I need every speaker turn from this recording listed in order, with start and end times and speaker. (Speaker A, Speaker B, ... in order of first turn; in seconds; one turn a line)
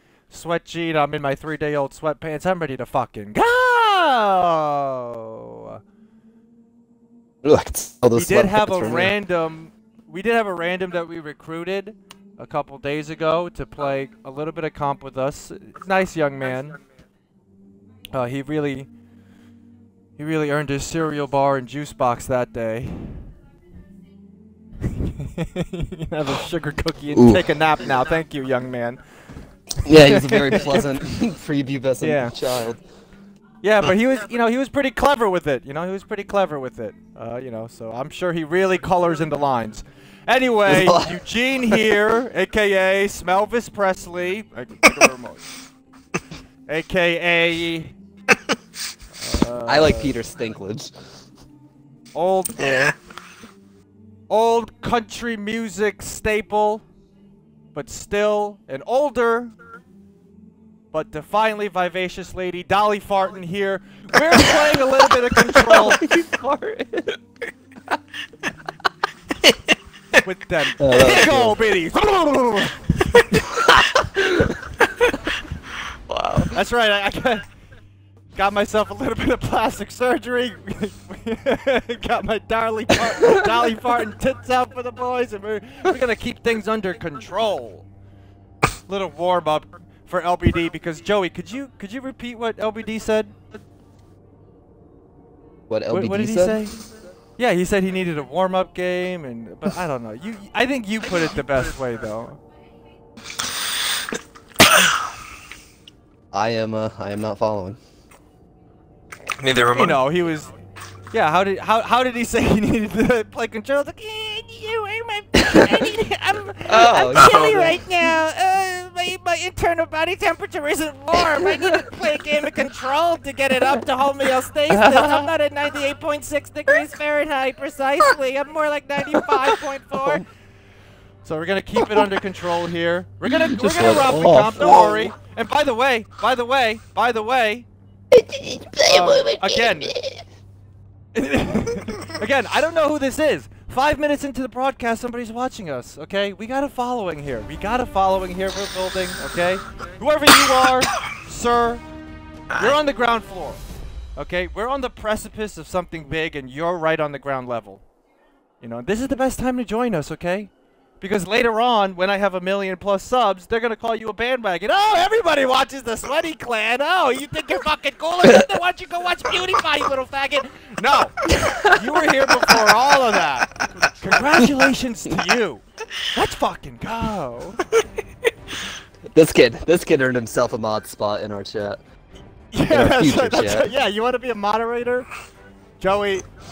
Speaker A: 0.3-5.8
Speaker B: 7.4-9.1
Speaker A: 8.1-16.8
Speaker A: 18.1-18.9
Speaker A: 20.2-23.3
Speaker A: 24.8-29.0
Speaker B: 27.1-27.4
Speaker B: 29.8-32.8
Speaker A: 30.0-30.9
Speaker A: 32.0-32.3
Speaker A: 33.6-45.5
Speaker B: 40.7-41.2
Speaker A: 46.7-48.0
Speaker A: 49.1-50.2
Speaker B: 49.7-51.0
Speaker A: 52.1-52.7
Speaker C: 52.6-52.9
Speaker A: 54.3-56.8
Speaker A: 57.7-59.5
Speaker A: 60.9-66.0
Speaker B: 65.6-67.2
Speaker A: 70.2-73.2
Speaker B: 70.8-71.6
Speaker B: 73.4-74.7
Speaker B: 76.1-76.6
Speaker A: 76.5-77.4
Speaker A: 78.3-87.8
Speaker A: 88.9-93.3
Speaker B: 95.7-96.6
Speaker A: 95.9-96.8
Speaker A: 97.4-102.4
Speaker B: 106.3-107.8
Speaker C: 109.4-110.0
Speaker A: 109.6-110.5
Speaker A: 111.1-130.2
Speaker B: 115.5-115.9
Speaker B: 116.7-117.8
Speaker C: 117.1-117.7
Speaker B: 121.1-122.7
Speaker B: 124.7-125.3
Speaker B: 129.1-130.2
Speaker A: 131.2-137.7
Speaker B: 131.8-132.1
Speaker B: 133.2-135.1
Speaker B: 138.1-140.2
Speaker A: 138.8-139.9
Speaker A: 141.1-151.8
Speaker C: 152.5-152.8
Speaker A: 152.6-153.6
Speaker A: 154.2-157.8
Speaker A: 158.6-177.6
Speaker B: 171.3-171.9
Speaker B: 172.5-172.7
Speaker B: 179.1-181.8
Speaker A: 182.5-185.1
Speaker B: 182.7-183.7
Speaker A: 185.8-186.3